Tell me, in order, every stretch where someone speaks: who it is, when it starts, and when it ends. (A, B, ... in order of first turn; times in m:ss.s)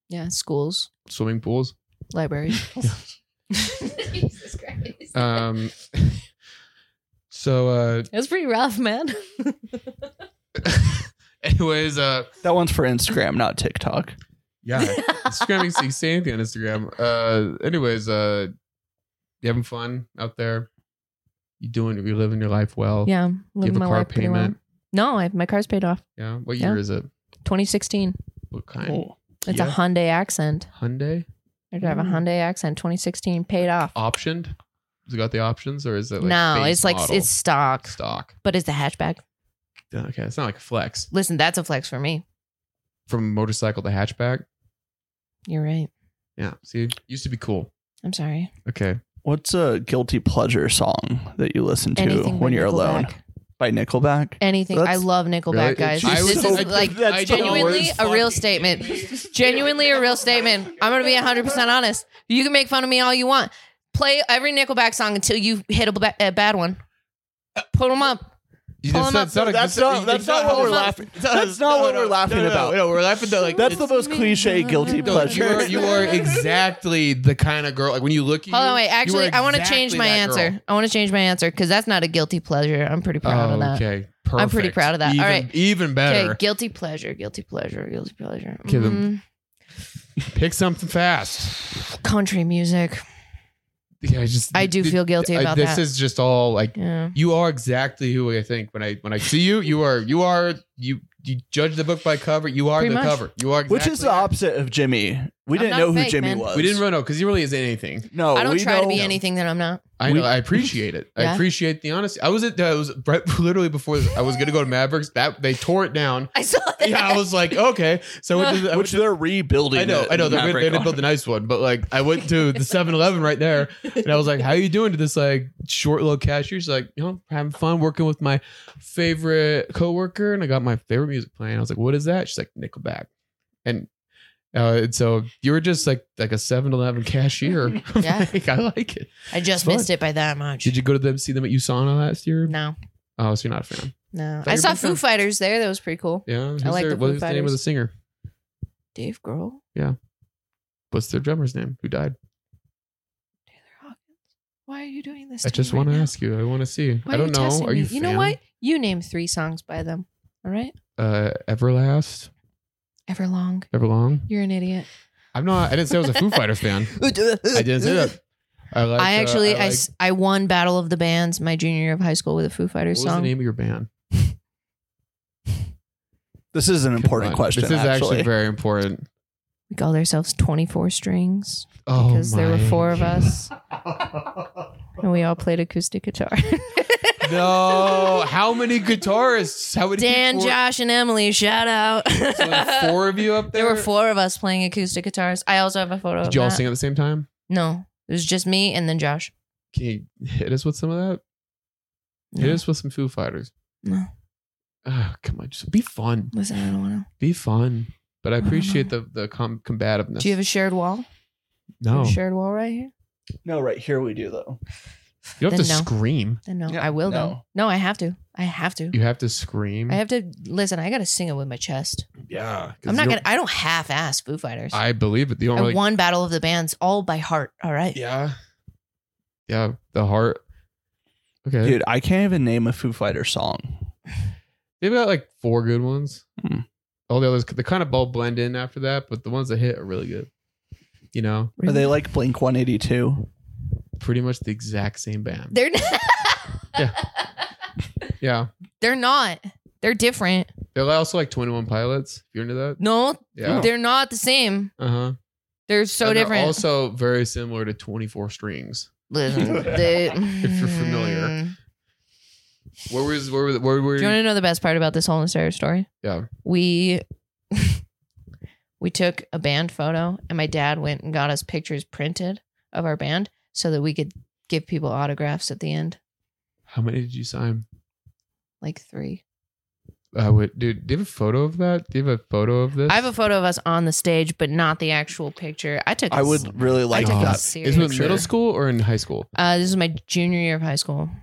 0:00.1-0:00.9 A
0:01.1-0:01.7 B
0:02.1-0:02.9 A
0:03.5-0:05.4 A
0:05.1-0:06.2 B
0:07.3-0:08.1 B
0:08.1-0:09.8 A
0:10.6-0:12.3 B
0:12.4-0:14.2 C
0:14.6-0:18.5 B
0:14.8-0:15.6 A
0:19.4-0:20.7 B
0:21.6-0:24.6 B
0:23.1-0:26.0 A
0:26.2-0:27.1 B
0:27.4-0:28.2 A
0:28.5-0:29.7 B
0:28.8-0:29.2 C
0:29.4-0:30.7 A
0:30.7-0:31.2 B
0:31.7-0:33.9 A
0:31.8-0:32.1 B
0:33.9-0:34.6 B
0:35.1-0:37.3 B
0:36.2-0:39.2 A
0:37.8-0:38.3 B
0:39.9-0:41.1 B
0:41.1-0:42.2 A
0:43.1-0:44.4 B
0:45.5-0:45.9 A
0:46.4-0:47.7 B
0:48.0-0:48.5 A
0:48.6-0:49.0 B
0:49.2-0:55.1 C
0:52.0-0:53.2 A
0:54.4-1:06.8 A
0:55.5-0:59.1 B
0:55.8-0:58.0 C
1:07.7-1:08.3 A
1:08.8-1:13.9 B
1:08.9-1:09.3 A
1:09.1-1:12.9 C
1:10.5-1:10.9 A
1:13.6-1:16.3 C
1:13.6-1:16.3 A
1:14.9-1:20.6 B
1:18.5-1:23.8 A
1:23.2-1:26.4 B
1:24.4-1:25.5 A
1:26.0-1:29.2 A
1:28.6-1:29.1 B
1:30.2-1:31.6 B
1:32.0-1:33.0 A
1:34.0-1:44.3 B
1:34.5-1:35.9 A
1:36.8-1:37.2 A
1:42.8-1:43.2 A
1:43.7-1:46.8 C
1:45.5-1:46.4 A
1:46.5-1:48.1 B
1:48.1-1:49.1 C
1:48.4-1:49.8 A
1:50.0-1:59.0 B
1:50.0-1:50.3 C
1:51.2-1:51.4 A
1:56.3-1:57.3 A
1:58.7-2:01.0 C
1:59.7-2:13.1 B
2:14.5-2:19.9 B
2:18.0-2:18.3 A
2:19.3-2:20.8 A
2:20.6-2:22.5 B
2:22.5-2:22.8 A
2:23.2-2:25.0 B
2:24.1-2:27.6 A
2:26.2-2:27.9 B
2:28.9-2:29.6 A
2:30.9-2:32.1 B
2:33.6-2:34.1 A
2:34.7-2:36.1 A
2:35.4-2:38.4 B
2:37.1-2:40.7 A
2:41.0-2:42.3 B
2:43.1-2:43.7 A
2:43.7-2:44.3 B
2:44.2-2:44.9 A
2:45.3-2:48.2 B
2:47.0-2:48.1 C
2:48.7-2:49.8 B
2:49.0-2:53.3 A
2:52.9-2:53.9 B
2:56.5-2:58.3 C
2:57.0-2:59.1 B
2:59.7-3:03.5 A
3:01.8-3:03.3 B
3:05.0-3:08.2 A
3:07.2-3:10.6 B
3:10.0-3:13.0 A
3:12.4-3:13.9 B
3:13.5-3:16.6 A
3:16.2-3:17.3 B
3:17.5-3:19.3 A
3:19.7-3:21.2 B
3:22.3-3:22.6 A
3:22.4-3:23.5 B
3:24.8-3:26.3 B
3:26.3-3:27.1 A
3:27.2-3:30.3 B
3:28.4-3:28.8 A
3:30.2-3:31.1 A
3:31.8-3:32.2 B
3:31.9-3:32.9 A
3:33.4-3:34.6 C
3:35.4-3:35.9 A
3:35.4-3:36.4 B
3:36.4-3:39.0 A
3:36.7-3:37.4 C
3:38.9-3:40.0 B
3:39.9-3:42.1 A
3:42.3-3:43.2 B
3:42.8-3:44.8 A
3:44.7-3:45.8 B
3:45.5-3:48.0 A
3:47.9-3:48.4 B
3:49.5-3:50.4 B
3:51.4-3:51.8 B
3:51.6-3:53.9 C
3:54.8-3:56.2 B
3:57.1-4:00.3 B
4:01.1-4:01.5 B
4:01.6-4:01.9 A
4:01.6-4:03.3 C
4:04.0-4:05.5 B
4:05.5-4:06.9 A
4:08.2-4:08.5 B
4:08.8-4:10.5 A
4:10.8-4:12.8 B
4:12.8-4:14.7 A
4:13.4-4:13.7 B
4:14.8-4:15.2 B
4:15.7-4:16.6 A
4:16.0-4:18.9 B
4:19.1-4:21.5 A
4:20.4-4:21.4 B
4:22.9-4:24.2 B
4:24.0-4:25.9 A
4:26.0-4:26.3 B
4:26.4-4:27.8 A
4:28.8-4:36.0 A
4:36.7-4:37.6 B
4:38.6-4:39.2 A
4:40.1-4:43.0 B
4:42.9-4:48.2 A
4:46.1-4:48.3 C
4:46.5-4:49.3 B
4:49.4-4:51.1 A